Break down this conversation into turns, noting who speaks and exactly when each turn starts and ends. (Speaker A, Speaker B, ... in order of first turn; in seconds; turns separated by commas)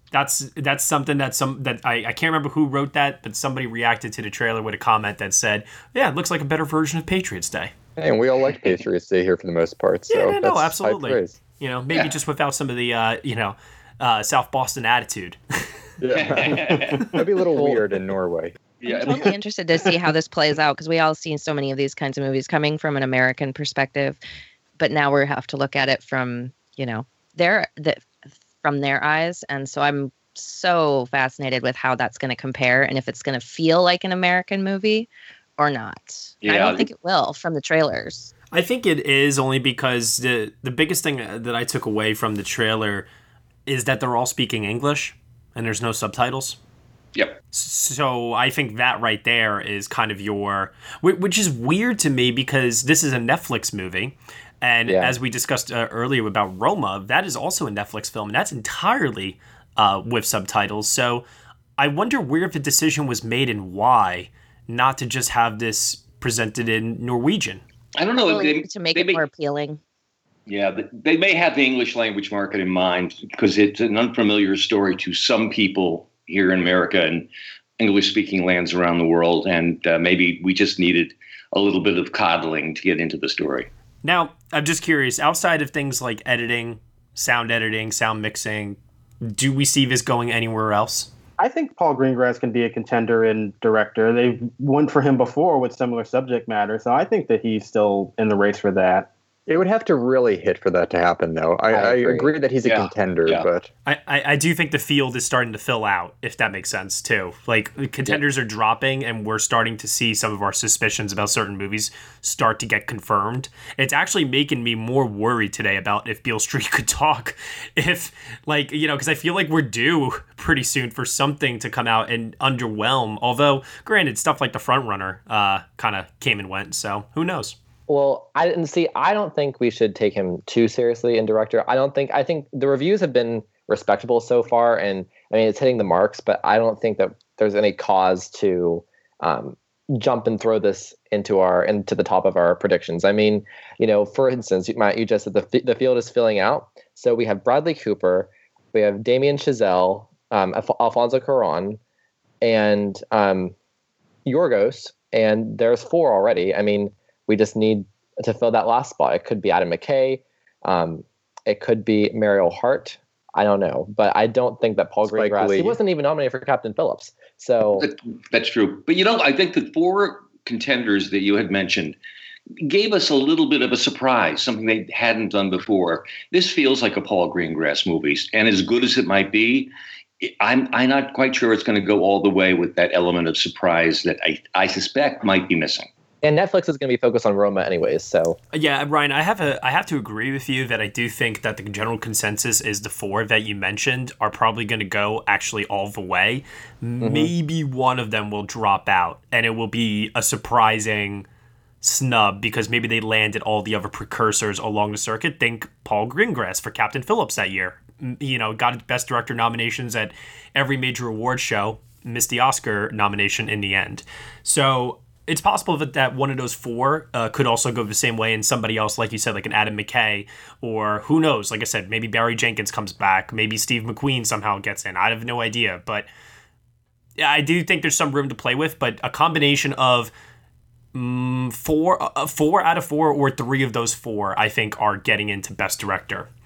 Speaker A: 0.1-7.7, Speaker B: 8.0-11.4, Speaker A: 10.1-15.4, Speaker B: 16.0-18.6, Speaker C: 16.1-17.0, Speaker D: 16.7-17.2, Speaker C: 18.8-19.3, Speaker E: 18.9-24.2, Speaker E: 24.8-38.3, Speaker C: 36.4-36.9, Speaker A: 38.5-43.1, Speaker A: 43.7-46.6, Speaker A: 47.5-61.2, Speaker F: 54.9-55.1, Speaker A: 61.8-67.6, Speaker C: 68.0-69.2, Speaker E: 68.3-69.8, Speaker C: 70.5-77.3, Speaker C: 77.8-83.7, Speaker A: 84.0-91.1, Speaker D: 91.4-99.1, Speaker B: 99.5-103.7, Speaker F: 101.7-102.3, Speaker C: 102.6-103.5, Speaker A: 103.8-127.6, Speaker F: 127.9-151.8, Speaker F: 152.4-153.5, Speaker F: 154.2-167.9, Speaker B: 165.0-165.8, Speaker C: 167.8-172.0, Speaker C: 172.6-185.9, Speaker F: 186.2-188.4, Speaker A: 188.5-201.3, Speaker F: 197.0-197.3, Speaker A: 201.8-226.1, Speaker A: 227.2-230.1, Speaker A: 230.9-236.3